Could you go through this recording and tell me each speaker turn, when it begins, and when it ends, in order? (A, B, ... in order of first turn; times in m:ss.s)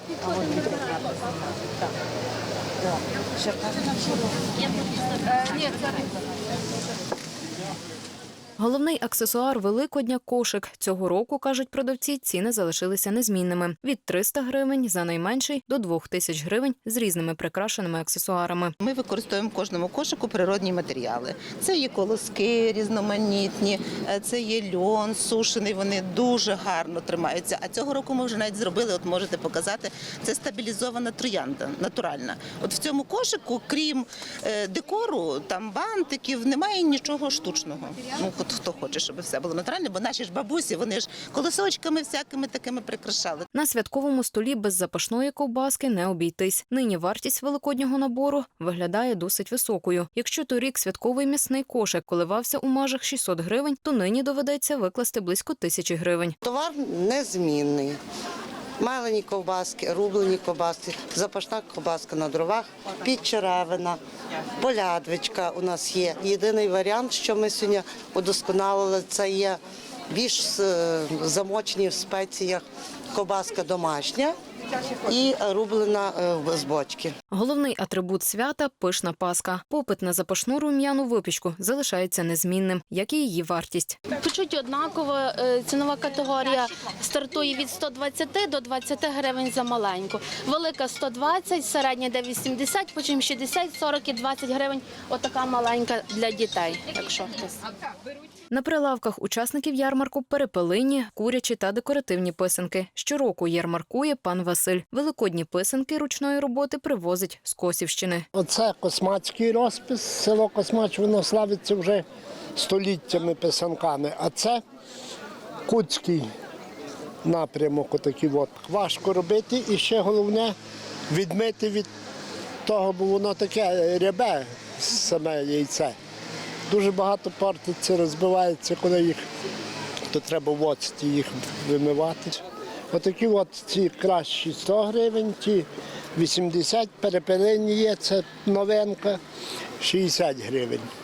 0:00.2-0:01.3 A
0:03.4-0:04.3 A
0:08.6-0:18.7 B
0:18.8-0:43.4 C
0:43.5-0:56.4 B
0:56.4-0:58.0 A
0:58.8-1:04.0 A
1:04.6-1:14.3 A
1:15.0-1:17.1 A
1:17.3-1:24.0 B
1:24.2-1:37.6 D
1:38.5-1:48.2 B
1:48.3-1:52.0 E
1:52.6-1:54.6 E
1:55.7-1:56.3 E
1:57.2-2:00.6 E
2:01.1-2:01.9 E
2:02.6-2:06.0 E
2:06.7-2:09.2 E
2:10.1-2:12.4 E
2:12.9-2:19.2 E
2:19.8-2:20.9 E